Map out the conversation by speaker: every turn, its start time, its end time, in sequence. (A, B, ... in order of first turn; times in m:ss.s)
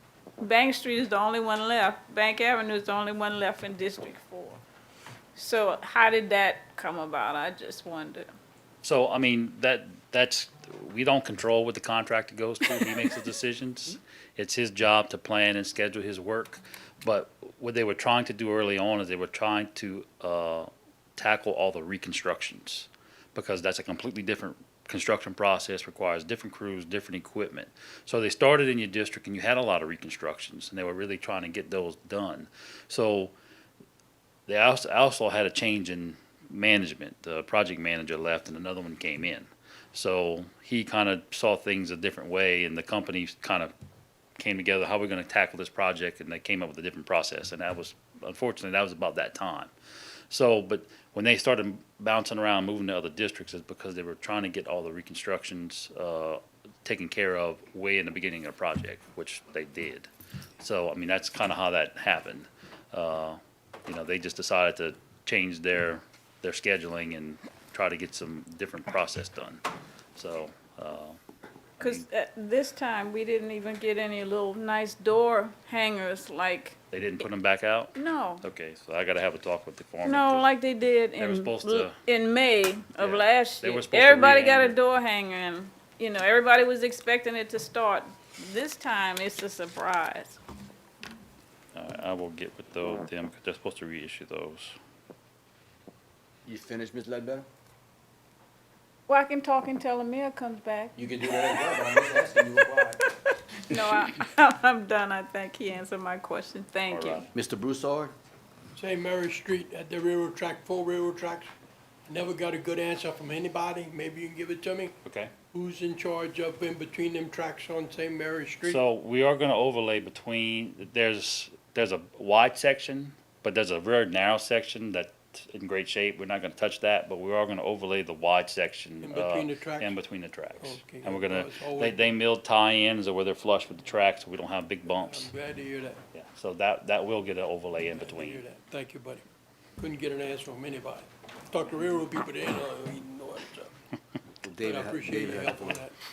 0:00.4-0:04.6 A
0:05.4-0:08.3 A
0:08.8-0:33.3 B
0:34.5-0:43.7 B
0:44.4-0:49.7 B
0:50.3-1:00.1 B
1:00.6-1:09.6 B
1:10.2-1:11.2 B
1:11.8-1:12.0 B
1:11.8-1:16.8 A
1:16.9-1:20.5 B
1:17.9-1:18.4 A
1:20.0-1:30.4 A
1:21.2-1:22.0 B
1:22.9-1:24.8 B
1:31.7-1:34.8 B
1:36.4-1:37.4 C
1:39.1-1:41.8 A
1:41.0-1:43.0 C
1:43.7-1:47.3 A
1:46.8-1:47.2 B
1:47.3-1:48.1 C
1:48.7-1:51.5 D
1:52.1-1:55.0 D
1:55.0-1:55.3 B
1:55.5-1:58.8 D
1:58.6-2:15.3 B
2:09.0-2:10.0 D
2:10.6-2:12.1 D
2:14.9-2:16.0 D
2:16.1-2:18.4 B
2:17.9-2:19.2 D
2:19.8-2:23.7 D
2:24.4-2:25.8 C
2:24.6-2:25.9 D